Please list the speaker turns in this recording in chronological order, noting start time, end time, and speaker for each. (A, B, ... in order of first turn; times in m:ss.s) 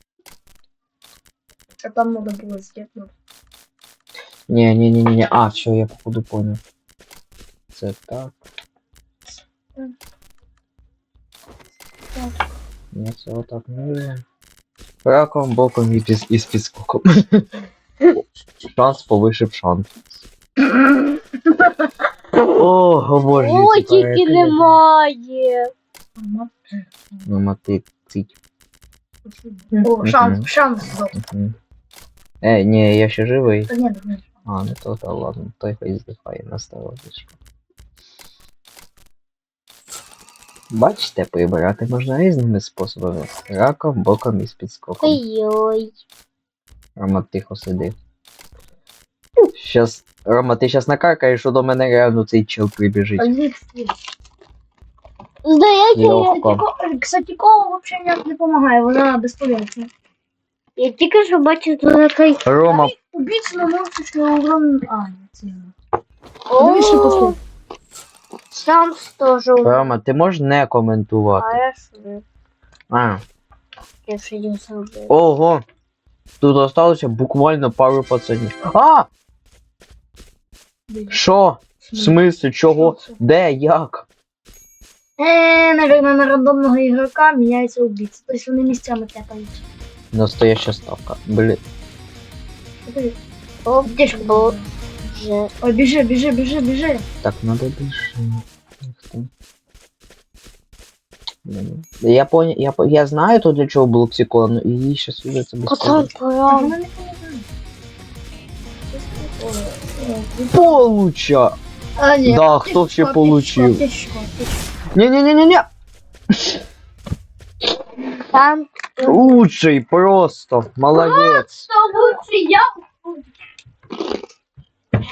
0:01.8-0:03.1 A
0:04.5-0:06.6 B
0:07.7-0:08.4 B
0:12.9-0:14.2 B
0:15.0-0:17.4 B
0:18.2-0:20.2 B
0:21.5-0:21.8 A
0:22.5-0:24.8 B
0:23.4-0:25.7 C
0:26.2-0:26.8 A
0:27.2-0:28.4 B
0:29.3-0:31.2 A
0:29.7-0:30.5 B
0:31.1-0:31.6 B
0:32.4-0:33.7 B
0:33.7-0:34.2 A
0:34.4-0:37.3 B
0:40.7-0:45.2 B
0:45.0-0:45.9 C
0:47.0-0:47.9 B
0:49.5-0:53.3 B
0:53.2-0:53.9 A
0:55.4-0:56.3 C
0:55.9-0:56.6 B
0:56.2-0:59.9 A
1:00.8-1:02.5 C
1:02.4-1:02.9 B
1:02.6-1:05.7 A
1:06.5-1:07.4 C
1:06.6-1:07.4 A
1:08.5-1:09.9 C
1:09.6-1:11.6 B
1:11.4-1:12.2 C
1:12.9-1:13.2 B
1:14.0-1:15.1 C
1:15.1-1:15.6 B
1:16.4-1:19.1 B
1:20.9-1:21.2 A
1:21.1-1:24.1 B
1:21.9-1:23.1 A
1:25.2-1:29.6 A
1:30.1-1:31.6 B
1:32.8-1:33.2 A
1:33.6-1:34.5 C
1:33.8-1:34.7 A
1:35.1-1:35.5 C
1:35.6-1:37.0 A
1:37.2-1:39.3 B
1:41.4-1:46.1 B
1:45.7-1:46.7 C
1:46.5-1:47.5 A
1:48.9-1:50.8 A
1:50.5-1:51.6 B
1:52.0-1:54.6 A
1:52.2-1:53.8 B
1:54.9-1:55.6 B
1:58.3-1:59.2 C
1:59.0-2:01.7 B
2:01.0-2:02.6 A